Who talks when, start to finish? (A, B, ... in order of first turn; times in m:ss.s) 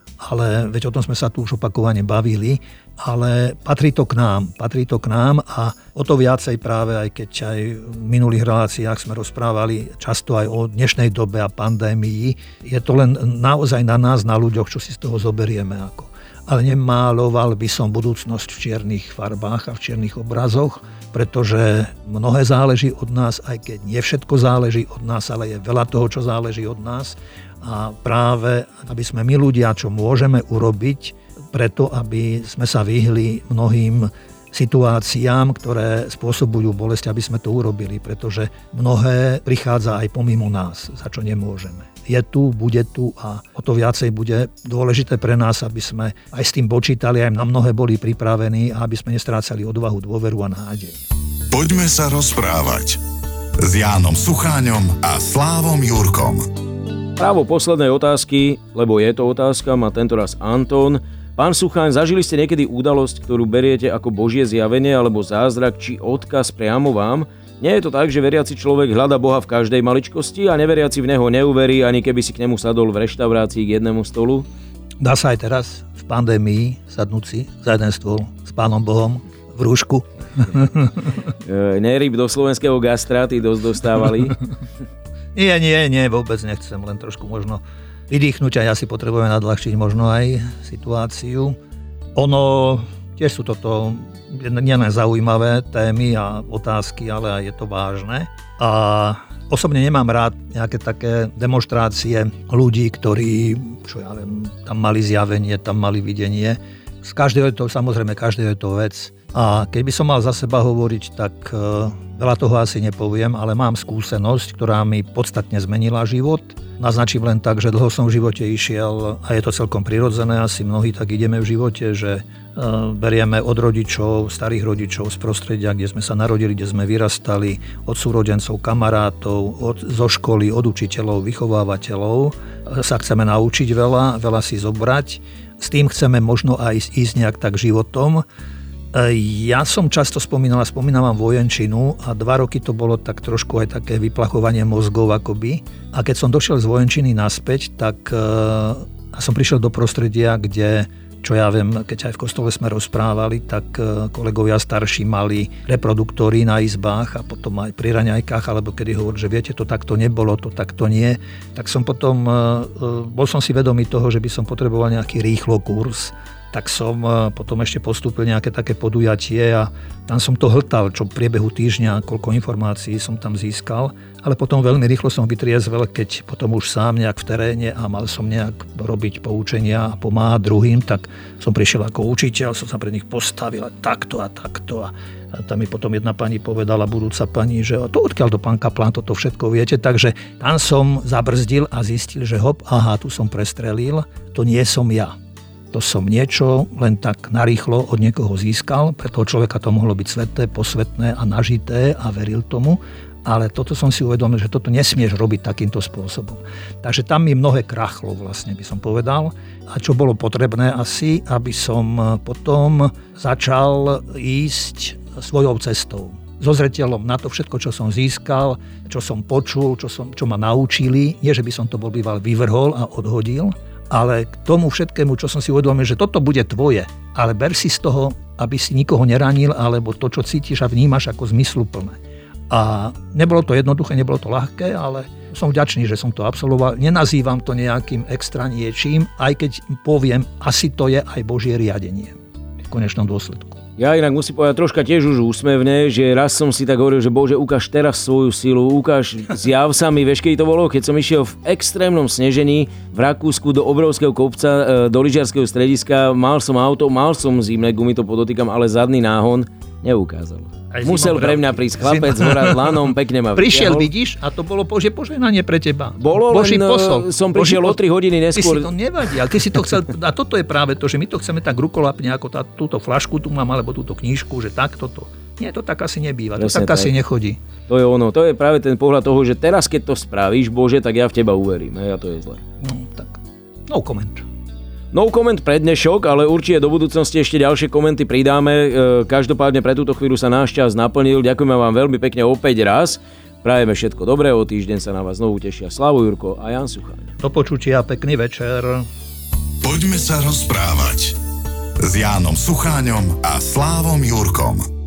0:00.2-0:51.0 A
0:51.5-0:53.0 B
0:53.6-0:56.5 B
0:57.2-1:14.5 C
1:15.0-1:21.0 A
1:21.4-1:24.4 C
1:25.4-1:31.6 A
1:32.2-2:18.2 A
2:18.9-3:15.1 A
3:15.7-3:52.0 A
3:52.5-4:02.2 A
4:02.7-4:03.6 A
4:03.8-4:23.9 C
4:20.7-4:22.8 A
4:23.4-4:27.8 A
4:26.0-4:28.7 C
4:28.4-4:37.4 A
4:36.4-4:36.9 C
4:37.7-4:42.4 C
4:42.6-4:44.2 A
4:44.9-4:57.1 C
4:57.2-4:58.9 A
4:59.6-5:01.2 B
5:01.8-5:04.7 B